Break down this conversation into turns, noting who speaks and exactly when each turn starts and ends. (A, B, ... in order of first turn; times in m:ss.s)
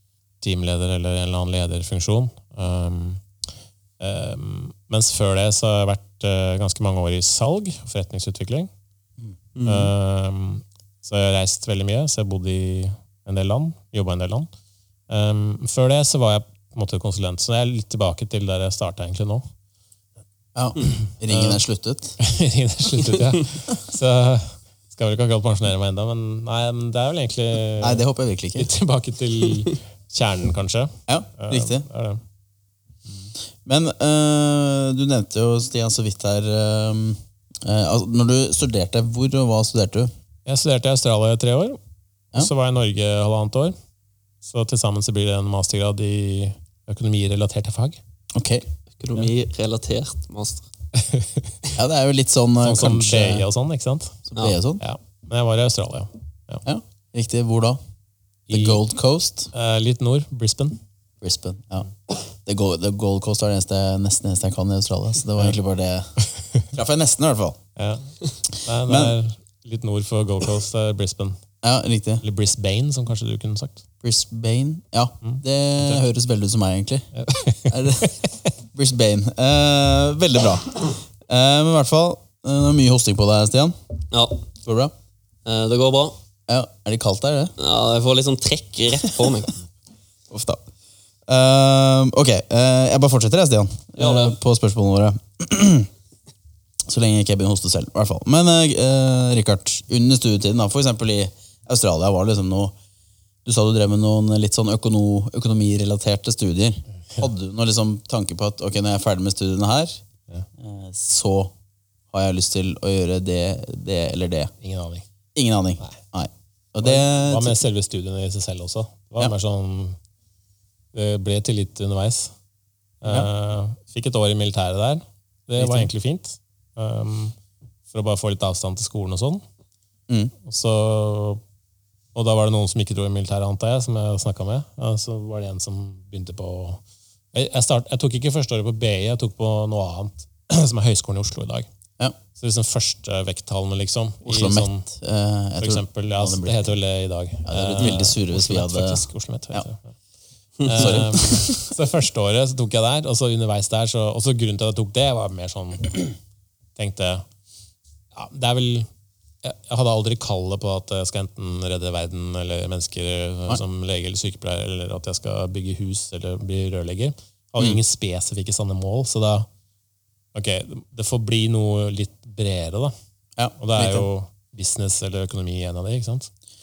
0:00.4-0:03.2 A
0:04.0-0:08.7 A
0:09.6-0:09.9 B
0:09.6-0:14.5 A
0:15.1-0:19.4 A
0:20.6-0:22.2 C
0:20.8-0:21.6 A
0:22.2-0:28.0 A
0:27.8-0:28.7 C
0:28.6-0:32.2 A
0:31.1-0:31.8 C
0:33.6-0:40.1 C
0:40.5-0:41.8 A
0:42.4-0:43.8 A
0:44.4-0:48.0 A
0:48.3-0:48.6 C
0:49.0-0:50.7 B
0:51.0-0:51.5 A
0:51.8-0:53.4 C
0:52.6-0:54.2 A
0:54.3-0:54.8 C
0:54.8-0:56.6 A
0:56.6-0:57.8 C
0:58.5-0:58.8 A
0:58.5-0:59.5 C
0:59.5-1:00.8 A
1:01.2-1:01.9 C
1:02.4-1:06.1 C
1:06.7-1:07.6 C
1:07.8-1:08.1 A
1:08.6-1:11.4 A
1:08.8-1:09.2 C
1:11.6-1:12.2 C
1:12.2-1:13.8 A
1:14.0-1:17.1 C
1:15.2-1:16.0 A
1:17.1-1:18.3 A
1:17.7-1:18.2 C
1:18.7-1:23.8 C
1:24.1-1:24.4 B
1:24.6-1:24.9 C
1:25.4-1:26.2 B
1:26.5-1:27.5 C
1:27.6-1:29.5 B
1:30.3-1:30.6 C
1:31.3-1:35.9 C
1:34.0-1:34.4 B
1:36.9-1:42.8 C
1:43.4-1:50.0 C
1:50.6-1:51.5 C
1:52.1-1:54.5 C
1:54.6-1:55.0 A
1:55.4-1:57.6 C
1:56.8-2:00.0 A
2:00.9-2:02.3 A
2:03.0-2:07.4 A
2:05.6-2:05.9 C
2:07.9-2:09.4 A
2:10.4-2:11.4 A
2:12.1-2:16.8 A
2:17.3-2:21.7 A
2:22.4-2:24.9 A
2:24.2-2:26.7 C
2:25.6-2:30.0 A
2:27.5-2:29.7 C
2:30.6-2:31.2 B
2:30.6-2:36.1 A
2:30.8-2:31.7 C
2:36.8-2:37.3 A
2:38.1-2:38.9 A
2:39.4-2:49.5 A
2:50.3-2:52.9 A
2:53.4-2:54.1 C
2:53.6-2:56.3 A